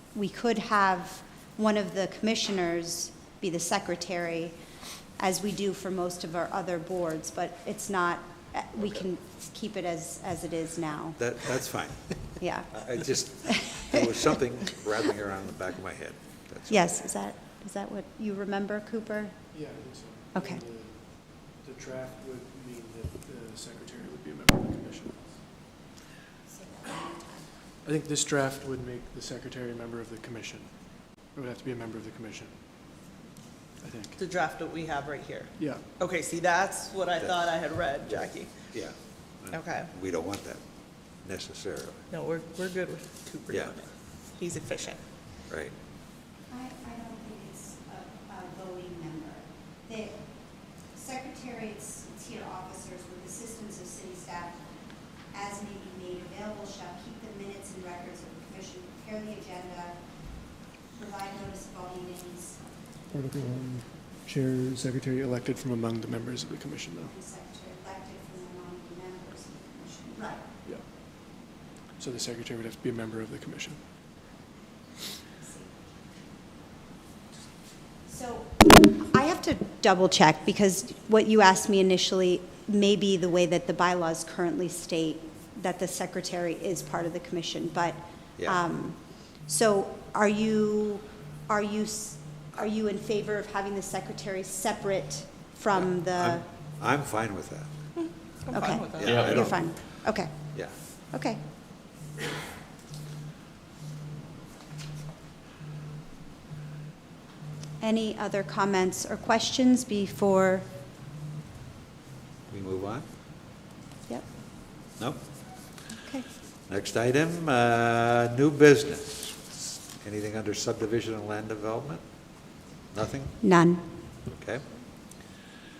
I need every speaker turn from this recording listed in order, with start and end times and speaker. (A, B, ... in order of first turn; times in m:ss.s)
0:00.1-0:04.6 A
0:05.2-0:11.2 A
0:11.2-0:12.1 B
0:12.4-0:12.8 A
0:12.7-0:17.0 B
0:13.4-0:14.0 A
0:16.7-0:19.4 A
0:19.5-0:25.4 C
0:20.3-0:20.6 A
0:26.5-0:27.4 A
0:27.8-0:30.7 C
0:31.3-0:32.5 C
0:33.8-0:34.2 C
0:34.2-0:38.5 D
0:35.6-0:35.9 C
0:37.2-0:37.5 B
0:38.7-0:40.6 B
0:39.5-0:39.9 D
0:41.2-0:42.0 B
0:42.1-0:45.0 D
0:46.5-0:50.2 A
0:50.9-0:54.6 A
0:55.3-1:00.0 A
1:00.9-1:02.6 A
1:03.1-1:07.2 C
1:07.1-1:10.4 A
1:12.0-1:13.8 C
1:15.4-1:15.7 A
1:18.1-1:36.4 A
1:35.7-1:37.7 B
1:38.4-1:39.1 D
1:38.5-1:40.5 A
1:38.8-1:40.0 B
1:41.1-1:41.4 A
1:47.8-1:50.7 A
1:52.5-1:53.0 B
1:56.0-1:56.3 A
1:56.7-2:02.0 B
2:02.9-2:03.4 B
2:03.4-2:03.8 A
2:04.3-2:04.6 B